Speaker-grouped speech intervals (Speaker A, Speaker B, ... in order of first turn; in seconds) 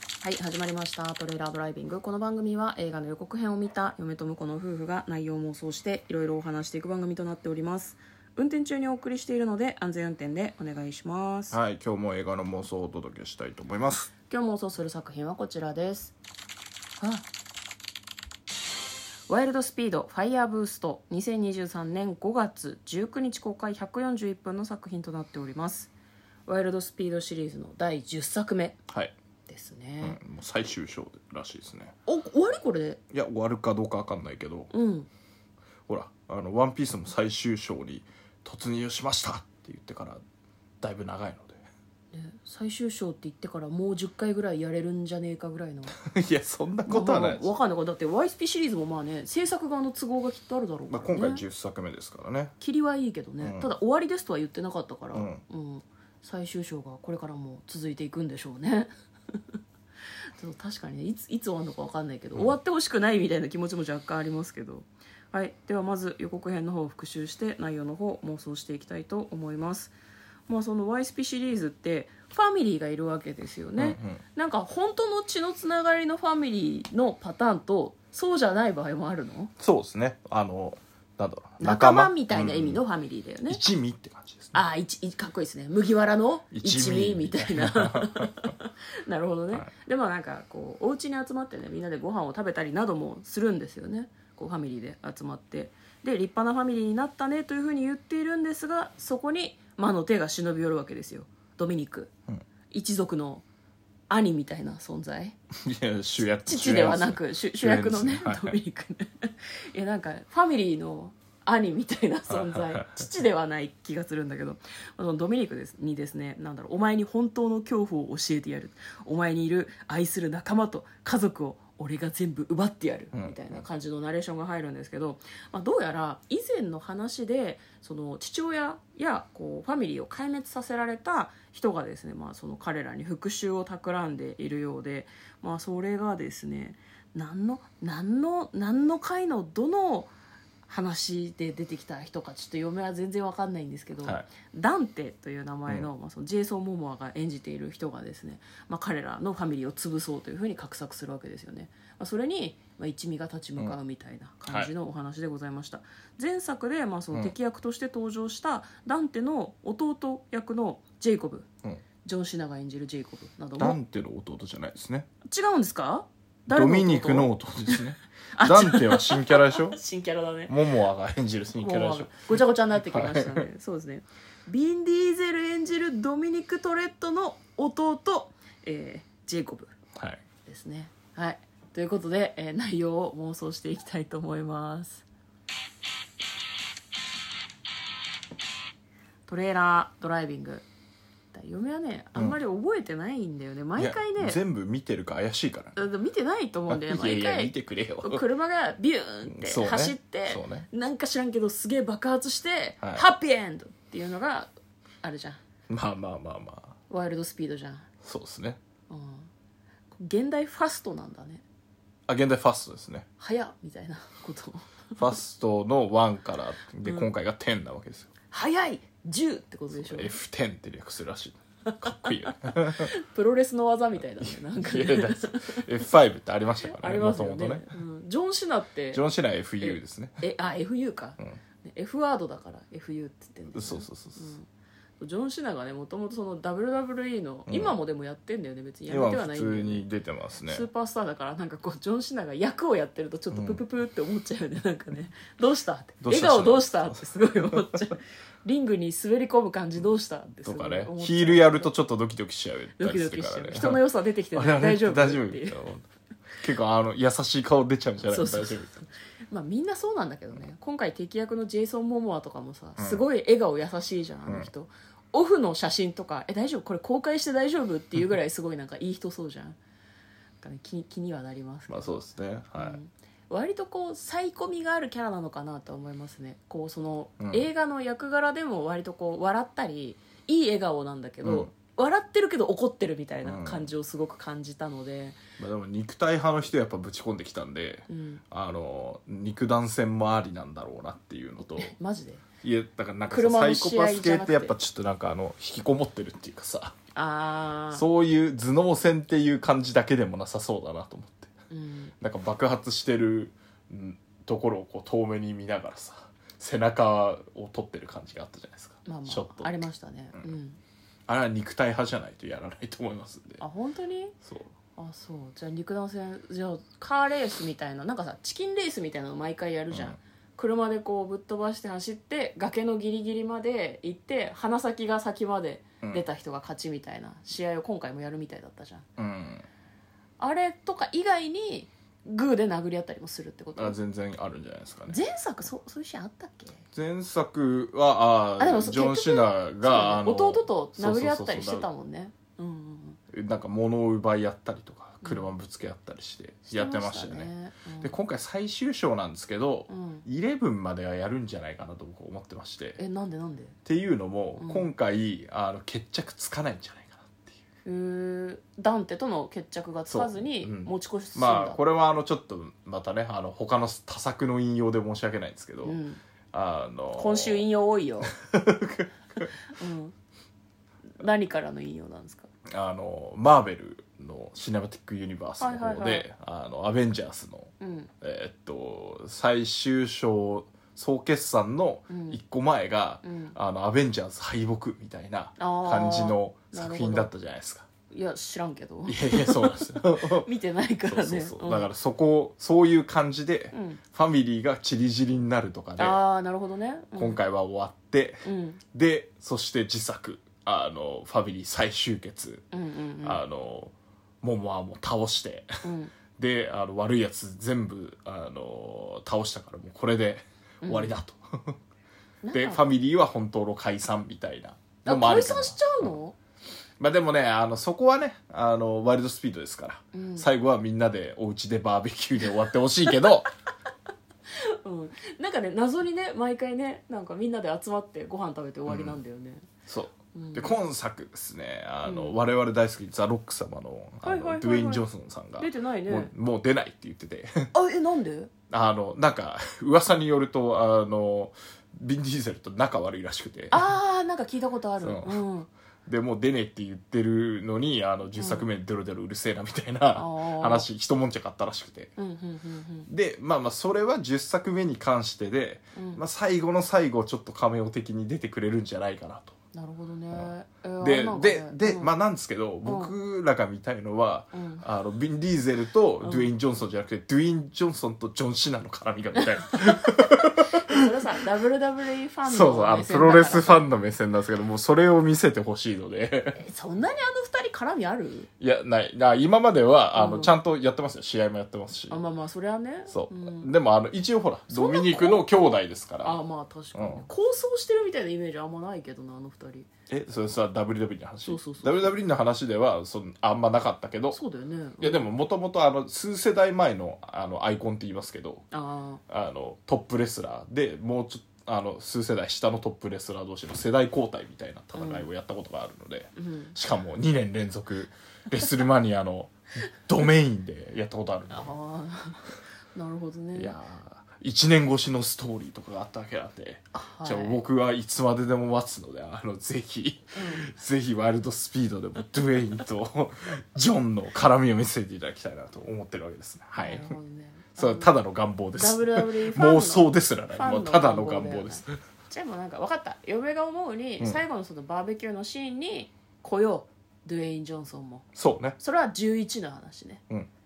Speaker A: 0.2-11.6, 14.3-16.1, 17.0-17.2, 19.3-25.9, 26.5-28.8, 29.5-30.2, 32.0-33.0, 34.7-35.1, 42.1-45.9, 46.9-51.4, 52.6-59.4, 60.3-69.9, 70.5-79.5, 81.6-83.6, 84.5-102.1, 102.7-103.4, 104.1-105.3, 106.5-140.1, 140.7-161.4, 162.0-163.8, 165.2-167.8, 168.3-170.5, 171.6-179.7, 180.4-185.0, 189.3-190.6, 191.3-194.4, 195.8-204.5, 205.0-205.4, 206.9-207.9, 208.9-209.3, 209.9-211.4, 213.2-214.7, 218.3-220.1, 221.8-225.6, 226.6-229.0, 229.6-234.4, 235.0-239.9, 240.5-251.7, 252.8-255.6, 258.1-269.6, 270.4-285.2, 287.9-288.2, 291.4-292.2, 293.1-294.6, 296.9-297.8, 301.5-301.9, 308.8-310.6, 313.4-314.1, 314.8-328.9, 330.2-333.8, 334.9-336.6, 338.4-343.0, 345.0-345.3, 346.5-347.9, 349.7-350.0, 352.8-353.5, 354.4-354.7, 357.6-361.6, 365.6-366.0, 366.9-368.1, 369.5-369.9, 371.0-372.3, 375.4-376.1, 377.6-377.9, 381.9-382.2, 383.0-383.4, 385.4-387.1, 387.9-391.7, 393.5-393.8, 395.8-397.2, 398.2-398.6, 402.5-403.2, 405.6-405.9, 410.6-410.9, 412.2-412.6, 414.8-416.1, 419.9-420.2, 424.5-429.4, 430.1-430.6, 431.8-432.2, 434.0-434.8, 435.4-436.1, 437.5-438.3, 443.5-445.5, 448.2-448.4, 449.9-450.7, 452.0-452.9, 455.7-456.0, 459.5-461.9, 462.6-462.9, 464.3-464.6, 466.0-466.3, 470.6-473.6, 476.3-478.3, 479.9-480.3, 481.9-483.5, 484.5-485.2, 486.0-489.7, 491.2-491.9, 494.1-495.0, 498.5-499.0, 504.7-505.1, 506.1-506.5, 511.3-513.5, 516.7-517.4, 520.1-520.5, 526.6-527.9, 528.5-538.0, 538.6-540.0
Speaker B: 11.5-14.1, 30.0-31.9, 33.1-34.7, 35.9-40.2, 40.8-41.6, 46.0-47.5, 50.9-52.5, 53.4-53.7, 55.1-55.4, 73.8-74.2, 79.6-82.8, 83.5-84.6, 86.5-88.3, 105.6-108.6, 112.3-113.0, 123.1-123.6, 154.5-154.7, 163.6-165.1, 166.5-169.8, 170.5-173.5, 179.9-180.2, 193.8-195.8, 196.7-198.2, 199.3-200.7, 202.8-203.1, 205.7-206.7, 208.0-208.6, 212.1-213.1, 215.0-218.1, 219.7-222.9, 224.2-227.7, 228.9-230.2, 233.5-234.3, 237.5-237.8, 238.9-240.7, 243.3-243.6, 246.0-247.7, 250.4-253.8, 254.3-255.8, 256.4-258.7, 262.8-263.0, 271.7-272.8, 277.2-277.5, 281.2-281.5, 283.2-283.7, 285.4-291.7, 292.4-296.7, 297.7-301.3, 302.0-309.6, 311.1-313.4, 314.2-314.5, 319.7-320.0, 329.0-329.4, 333.6-335.0, 336.7-341.7, 343.1-352.8, 353.6-357.4, 359.9-365.8, 366.3-367.4, 368.2-369.3, 372.5-387.6, 388.9-390.3, 390.8-396.0, 396.9-402.4, 403.0-405.6, 406.2-411.6, 412.3-415.9, 416.8-423.3, 428.7-429.0, 429.6-437.5, 438.5-443.7, 444.8-445.2, 445.9-451.9, 452.9-459.3, 460.1-470.8, 472.2-476.4, 478.4-482.0, 482.9-486.2, 486.7-487.1, 489.9-494.2, 494.8-498.4, 499.1-511.5, 513.4-527.0, 527.5-531.7, 538.1-538.5